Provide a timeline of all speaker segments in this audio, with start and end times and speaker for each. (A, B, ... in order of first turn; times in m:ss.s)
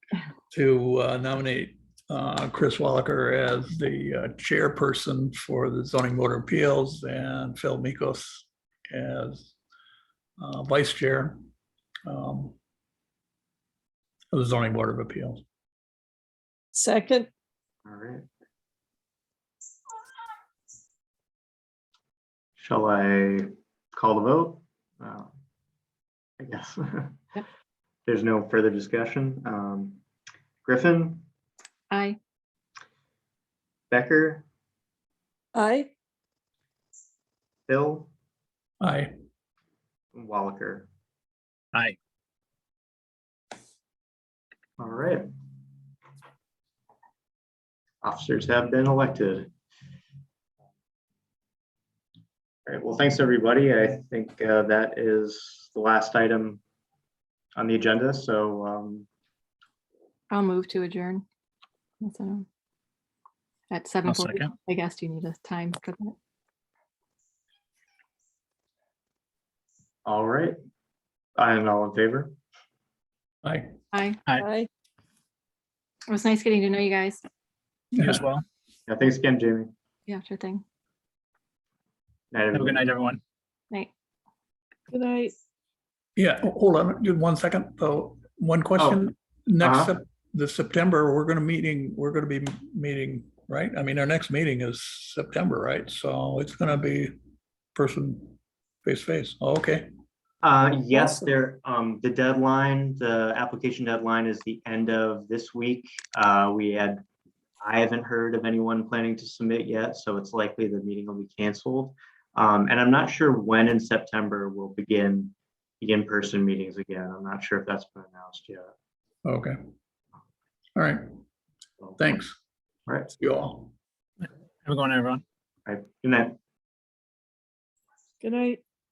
0:00.5-0:09.5 A
0:10.4-0:11.4 A
0:12.1-0:12.6 A
0:14.3-0:15.4 A
0:16.7-0:17.3 B
0:17.8-0:18.2 C
0:22.6-0:25.3 C
0:26.4-0:27.2 C
0:28.1-0:30.0 C
0:30.6-0:31.3 C
0:31.9-0:32.2 D
0:33.9-0:34.4 C
0:35.5-0:35.9 B
0:37.7-0:38.1 C
0:38.8-0:39.1 A
0:40.1-0:40.9 C
0:44.8-0:45.3 C
0:48.0-0:49.5 C
0:52.7-0:56.6 C
0:57.6-0:59.1 C
1:00.3-1:01.2 D
1:02.0-1:02.5 D
1:03.7-1:06.2 D
1:04.1-1:04.5 E
1:10.0-1:10.6 C
1:11.4-1:12.4 C
1:13.4-1:13.8 A
1:13.9-1:14.2 D
1:14.4-1:14.7 B
1:16.1-1:17.2 D
1:18.0-1:18.2 A
1:18.0-1:18.4 E
1:18.9-1:19.7 C
1:20.1-1:20.6 D
1:22.3-1:22.9 C
1:22.5-1:23.2 E
1:24.9-1:25.3 B
1:26.2-1:37.1 A
1:29.6-1:30.0 C
1:37.8-1:39.9 A
1:40.4-1:47.0 C
1:47.6-1:58.7 C
1:59.2-1:59.6 A
2:00.8-2:01.0 A
2:02.0-2:02.4 A
2:03.2-2:03.7 A
2:04.2-2:05.2 E
2:05.7-2:06.4 C
2:08.2-2:08.6 B